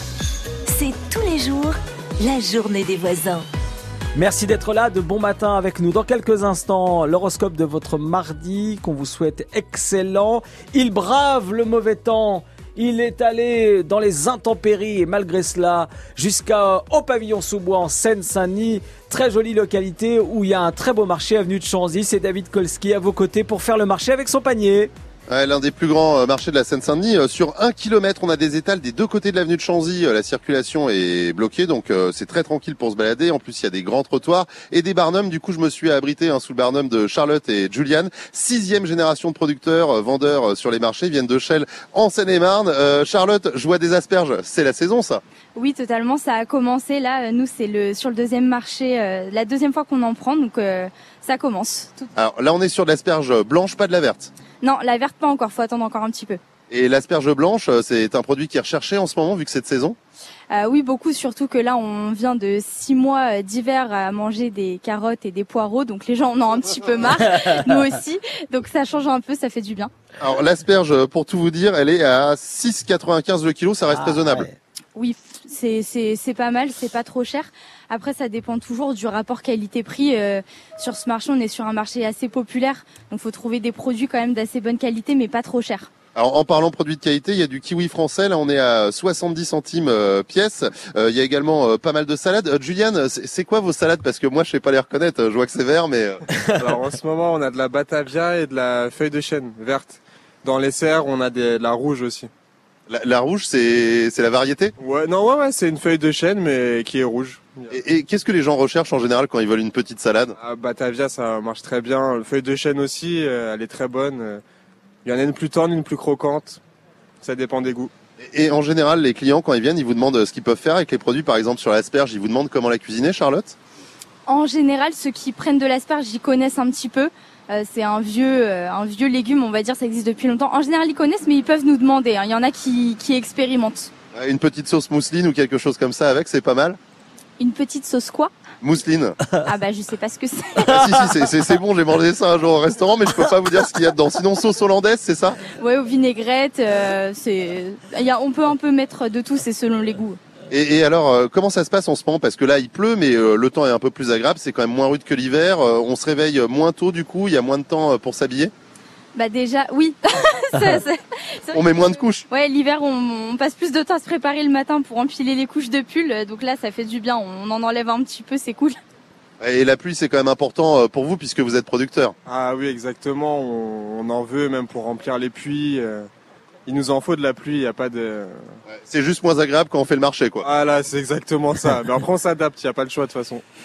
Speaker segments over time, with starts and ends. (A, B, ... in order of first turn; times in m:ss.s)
0:00.7-0:03.4 A
0:04.1-0:24.9 B
0:25.3-0:45.2 C
0:45.6-0:52.1 D
0:52.2-0:54.3 C
0:54.6-0:56.4 D
0:56.7-1:00.0 C
1:00.5-1:09.9 D
1:10.2-1:14.5 C
1:13.9-1:14.6 B
1:14.9-1:25.9 D
1:26.1-1:36.2 C
1:36.6-1:42.3 E
1:42.9-1:44.7 C
1:44.8-1:47.7 E
1:47.7-1:50.3 C
1:50.4-1:54.4 E
1:55.0-1:56.6 E
1:57.2-1:57.9 E
1:58.2-2:03.6 C
2:04.2-2:13.9 D
2:14.1-2:16.8 C
2:17.4-2:18.3 D
2:18.6-2:19.2 C
2:19.4-2:20.8 D
2:20.7-2:25.4 C
2:25.5-2:30.2 D
2:30.5-2:38.5 C
2:39.1-2:48.8 D
2:41.5-2:42.2 C
2:49.4-2:52.1 C
2:52.2-2:56.1 E
2:56.6-2:58.5 E
2:58.7-3:00.4 C
3:00.4-3:03.4 E